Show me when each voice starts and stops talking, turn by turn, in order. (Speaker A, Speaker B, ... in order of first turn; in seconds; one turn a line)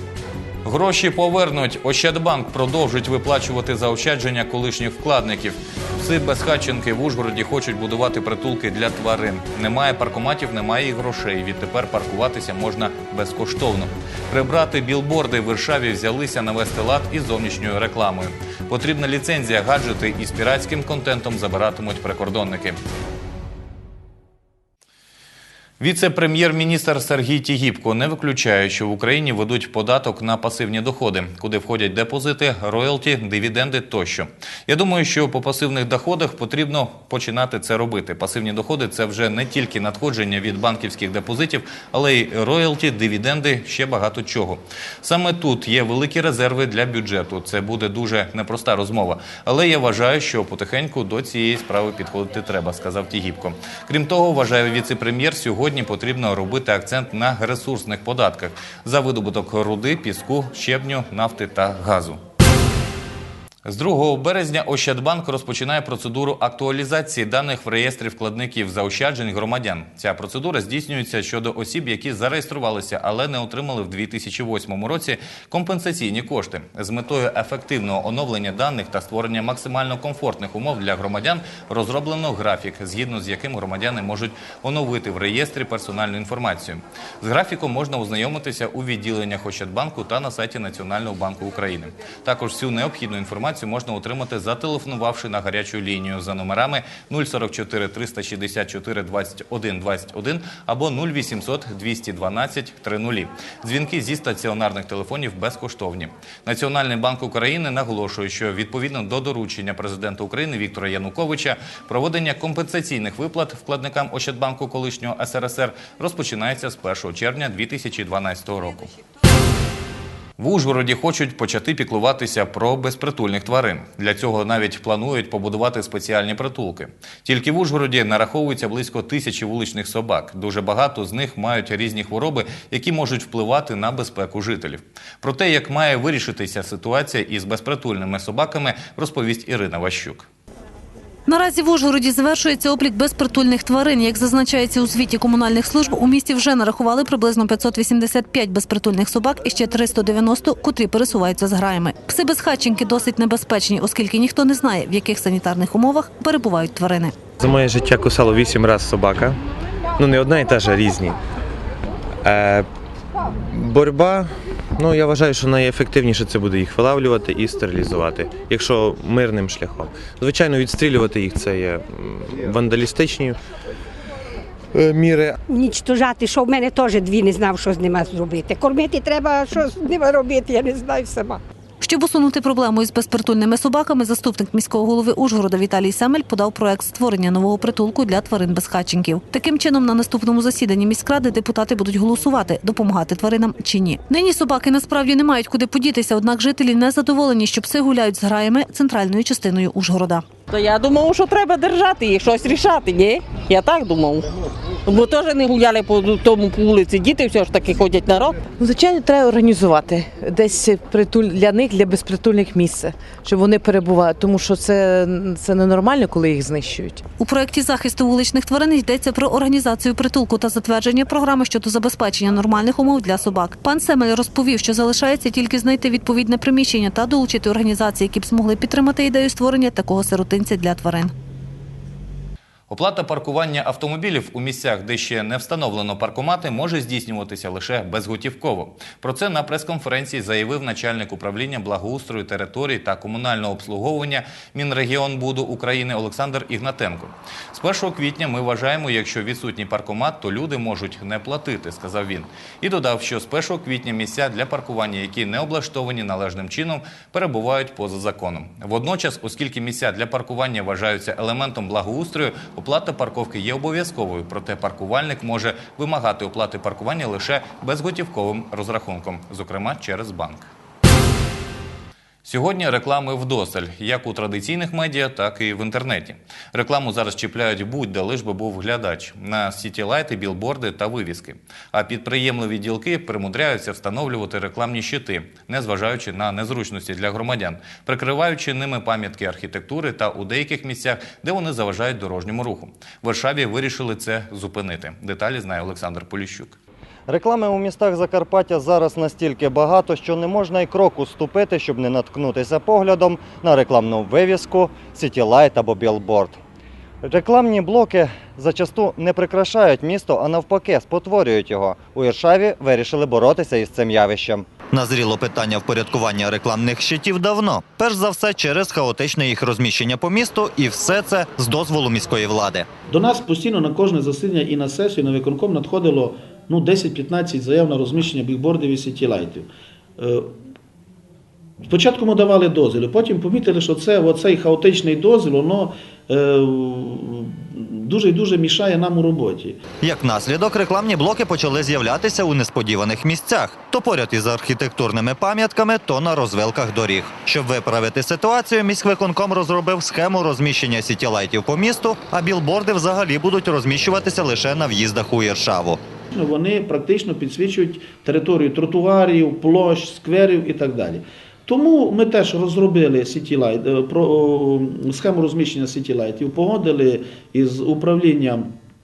Speaker A: 0.6-22.8
Speaker A: 25.8-62.2
Speaker A: 63.6-118.9
Speaker A: 120.4-140.3
Speaker B: 141.3-157.1
Speaker C: 157.4-159.4
Speaker C: 160.0-161.1
Speaker C: 162.2-162.6
Speaker C: 163.5-173.3
Speaker C: 174.8-175.3
Speaker D: 175.5-181.4
Speaker B: 181.8-200.2
Speaker E: 200.5-204.3
Speaker E: 204.8-208.4
Speaker F: 208.5-217.0
Speaker B: 217.2-231.1
Speaker A: 232.7-270.5
Speaker A: 272.2-296.6
Speaker G: 297.1-306.4
Speaker G: 307.0-314.5
Speaker H: 314.7-322.7
Speaker I: 322.9-330.3
Speaker I: 331.6-339.6
Speaker H: 339.8-355.8
Speaker I: 356.1-368.5